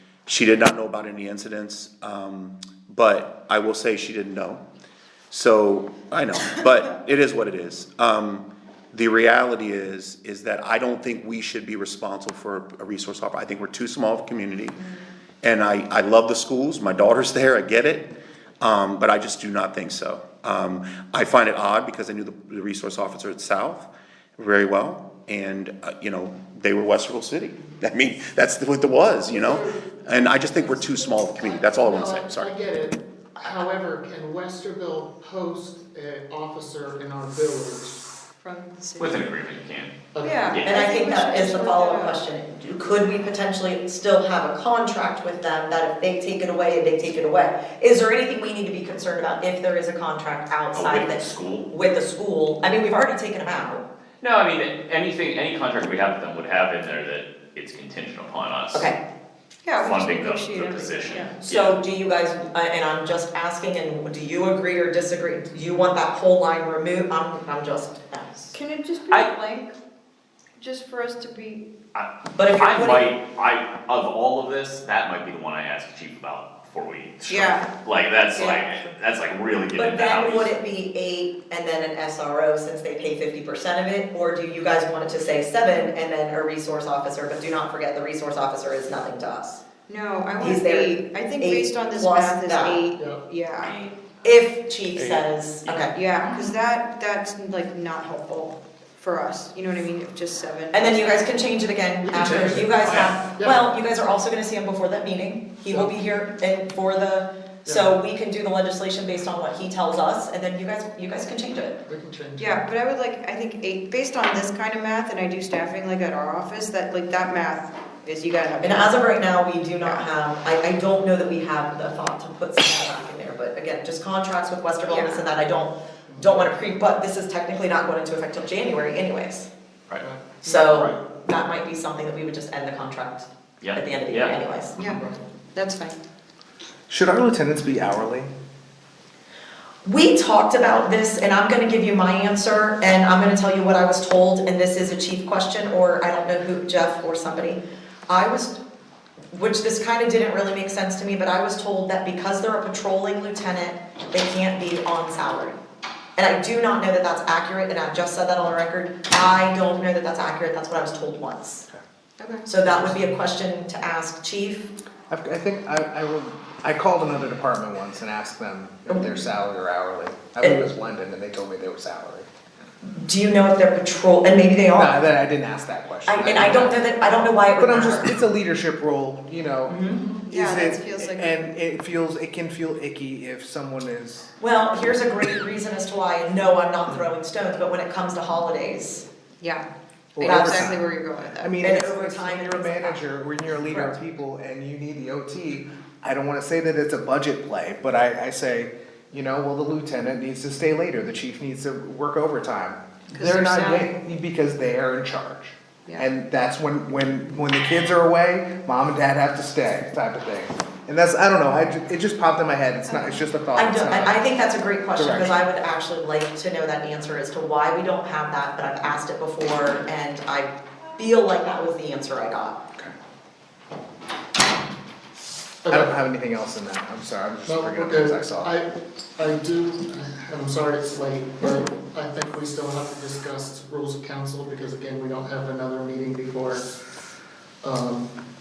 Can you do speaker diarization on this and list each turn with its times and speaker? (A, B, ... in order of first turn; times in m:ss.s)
0:00.2-0:04.6 A
0:05.3-0:14.8 A
0:15.4-0:32.5 A
0:29.3-0:38.0 B
0:38.4-0:39.3 C
0:39.0-0:39.9 D
0:40.1-0:40.6 B
0:40.2-0:42.2 C
0:40.5-0:40.8 D
0:40.6-0:53.8 E
0:50.7-0:51.7 D
0:54.2-0:58.9 D
0:58.7-0:59.0 E
0:59.6-1:01.4 C
0:59.8-1:01.8 D
1:01.4-1:08.5 E
1:08.5-1:09.7 C
1:10.6-1:11.6 C
1:11.9-1:20.6 D
1:12.3-1:13.1 E
1:17.3-1:17.7 C
1:18.3-1:18.9 C
1:19.7-1:29.6 E
1:29.9-1:33.8 C
1:30.4-1:32.9 E
1:32.9-1:33.2 B
1:34.2-1:36.0 E
1:35.9-1:41.4 C
1:40.7-1:51.8 E
1:42.0-1:43.6 B
1:42.9-1:43.1 D
1:45.7-1:45.9 B
1:47.6-1:48.0 B
1:51.8-1:52.7 B
1:52.4-1:59.0 C
1:58.6-2:09.5 E
1:59.8-2:00.1 C
2:04.9-2:05.3 C
2:06.1-2:06.5 B
2:10.0-2:10.9 B
2:10.4-2:14.8 E
2:13.6-2:14.9 D
2:14.9-2:15.2 B
2:15.5-2:16.0 C
2:16.9-2:18.3 F
2:19.8-2:28.6 E
2:29.3-2:35.6 E
2:36.2-2:41.6 E
2:42.2-2:42.5 C
2:42.5-2:44.7 E
2:42.7-2:43.0 F
2:45.1-2:52.3 F
2:52.9-2:55.0 E
2:54.7-2:56.8 F
2:56.1-2:58.1 E
2:57.6-2:59.8 F
2:59.7-3:00.1 E
3:00.1-3:01.3 C
3:00.3-3:04.3 F
3:04.4-3:09.0 E
3:09.4-3:11.6 C
3:10.2-3:34.2 F
3:10.2-3:10.6 E
3:11.6-3:13.0 E
3:13.7-3:14.0 E
3:23.1-3:23.9 C
3:32.9-3:33.2 C
3:33.5-3:42.6 E
3:35.0-3:35.4 F
3:45.6-3:45.9 B
3:45.7-3:48.5 F
3:47.4-3:56.6 B
3:57.6-3:58.1 B